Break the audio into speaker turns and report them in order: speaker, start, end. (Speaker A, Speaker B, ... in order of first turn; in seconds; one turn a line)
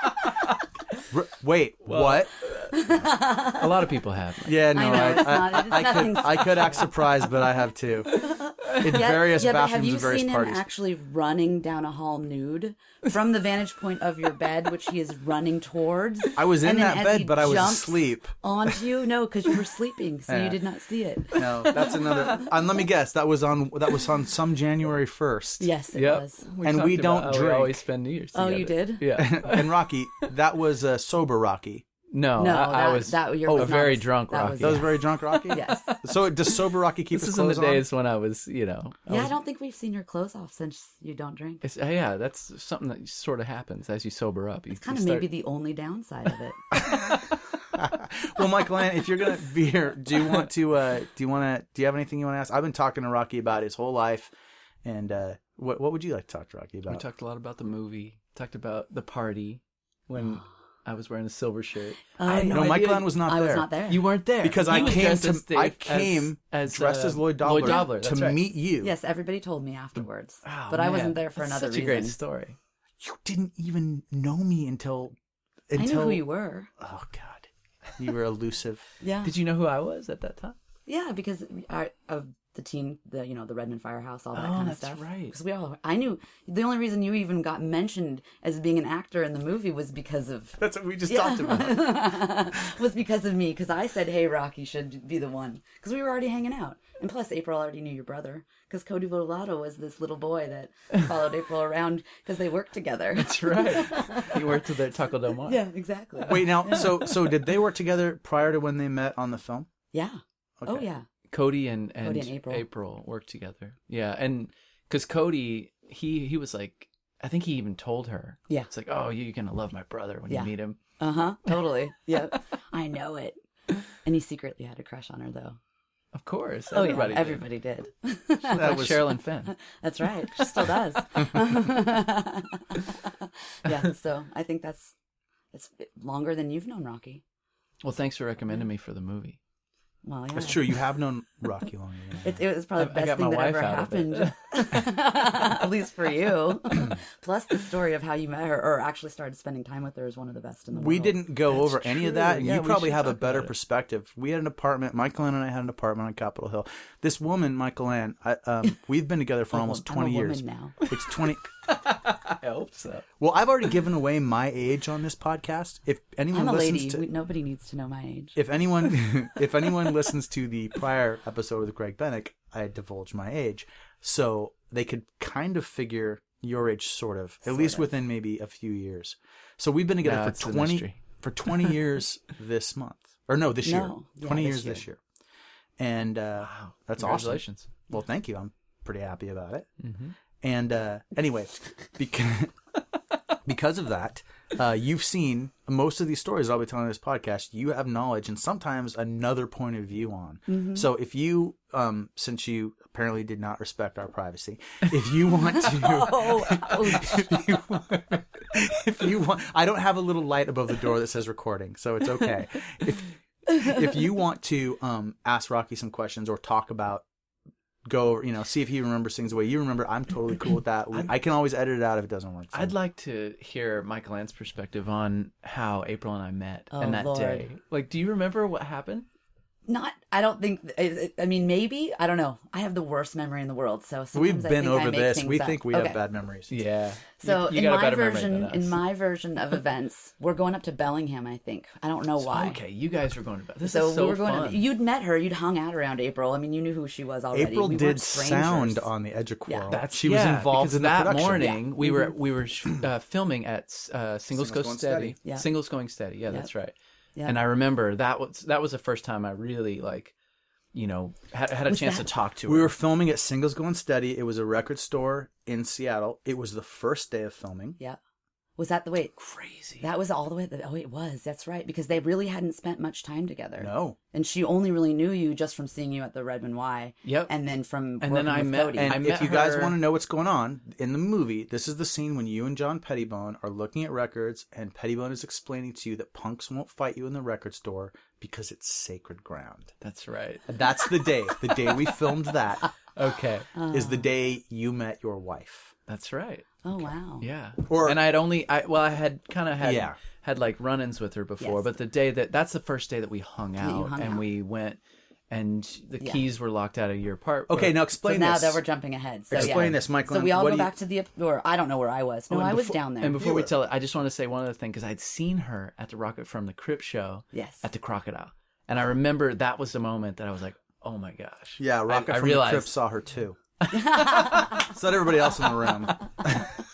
Speaker A: 1.1-2.3
Speaker B: 1.9-5.4
Speaker C: 2.7-3.8
Speaker A: 4.4-10.6
Speaker C: 4.7-6.8
Speaker C: 8.2-21.9
Speaker A: 16.3-18.3
Speaker A: 20.3-20.6
Speaker A: 21.3-25.7
Speaker B: 21.9-22.3
Speaker C: 25.6-26.5
Speaker B: 25.9-30.2
Speaker A: 26.6-27.8
Speaker C: 28.3-29.1
Speaker A: 29.1-31.8
Speaker B: 32.1-36.0
Speaker C: 32.4-36.0
Speaker A: 33.5-33.8
Speaker A: 34.6-37.8
Speaker B: 37.1-39.3
Speaker C: 39.1-41.6
Speaker B: 41.6-45.3
Speaker C: 44.8-46.8
Speaker A: 47.7-54.3
Speaker A: 54.8-57.0
Speaker B: 56.9-63.1
Speaker C: 62.2-64.1
Speaker A: 62.5-63.7
Speaker B: 63.9-68.4
Speaker A: 64.4-68.9
Speaker C: 64.7-65.0
Speaker C: 67.6-67.9
Speaker C: 68.8-72.2
Speaker B: 70.4-72.6
Speaker A: 73.0-75.1
Speaker A: 75.7-76.2
Speaker C: 75.8-76.7
Speaker A: 76.8-78.8
Speaker C: 79.0-79.3
Speaker B: 79.2-80.6
Speaker C: 80.8-104.8
Speaker B: 84.3-85.3
Speaker A: 90.6-92.5
Speaker B: 103.1-105.6
Speaker C: 105.3-107.1
Speaker A: 106.3-109.7
Speaker C: 109.9-111.0
Speaker A: 110.6-110.9
Speaker B: 111.3-120.8
Speaker C: 112.0-112.6
Speaker C: 120.3-123.4
Speaker C: 123.9-125.6
Speaker B: 126.1-127.4
Speaker C: 126.7-134.9
Speaker B: 128.4-129.5
Speaker A: 128.5-129.0
Speaker B: 130.3-130.7
Speaker C: 135.5-137.2
Speaker B: 137.8-139.4
Speaker C: 140.0-140.8
Speaker A: 140.3-142.4
Speaker C: 142.2-152.2
Speaker B: 142.8-144.8
Speaker A: 150.7-161.5
Speaker B: 151.6-153.5
Speaker C: 159.5-160.8
Speaker B: 161.6-163.1
Speaker A: 163.2-167.0
Speaker C: 166.3-168.3
Speaker A: 168.3-185.0
Speaker C: 177.4-177.9
Speaker B: 180.0-181.0
Speaker C: 183.6-184.8
Speaker A: 185.8-189.7
Speaker B: 186.4-187.7
Speaker B: 189.8-190.1
Speaker A: 190.4-192.5
Speaker A: 193.4-217.0
Speaker C: 200.5-200.8
Speaker C: 205.6-207.3
Speaker A: 217.8-222.7
Speaker B: 222.5-229.1
Speaker C: 226.7-227.5
Speaker C: 229.7-236.0
Speaker A: 234.1-236.5
Speaker B: 236.5-238.8
Speaker C: 237.2-242.6
Speaker B: 242.2-244.6
Speaker C: 243.6-248.9
Speaker A: 247.3-251.5
Speaker C: 249.5-249.7
Speaker B: 249.7-260.1
Speaker C: 251.3-252.1
Speaker A: 254.3-255.2
Speaker B: 260.7-262.7
Speaker C: 261.6-262.1
Speaker A: 262.4-267.8
Speaker C: 268.6-269.2
Speaker B: 269.2-269.9
Speaker C: 269.8-279.0
Speaker A: 273.6-274.0
Speaker B: 277.0-277.3
Speaker B: 278.0-279.8
Speaker A: 278.8-289.7
Speaker B: 289.8-290.6
Speaker A: 290.5-292.7
Speaker B: 292.9-293.5
Speaker C: 293.5-294.1
Speaker A: 293.7-295.7
Speaker B: 295.9-307.8
Speaker C: 296.6-297.3
Speaker A: 297.7-298.0
Speaker A: 299.6-299.9
Speaker C: 303.6-304.2
Speaker A: 307.5-308.6
Speaker C: 308.0-313.2
Speaker A: 309.3-310.7
Speaker B: 309.3-309.7
Speaker B: 312.3-322.8
Speaker A: 313.1-313.5
Speaker C: 317.3-317.6
Speaker A: 321.6-323.4
Speaker B: 323.6-324.4
Speaker C: 323.7-324.6
Speaker A: 324.3-326.4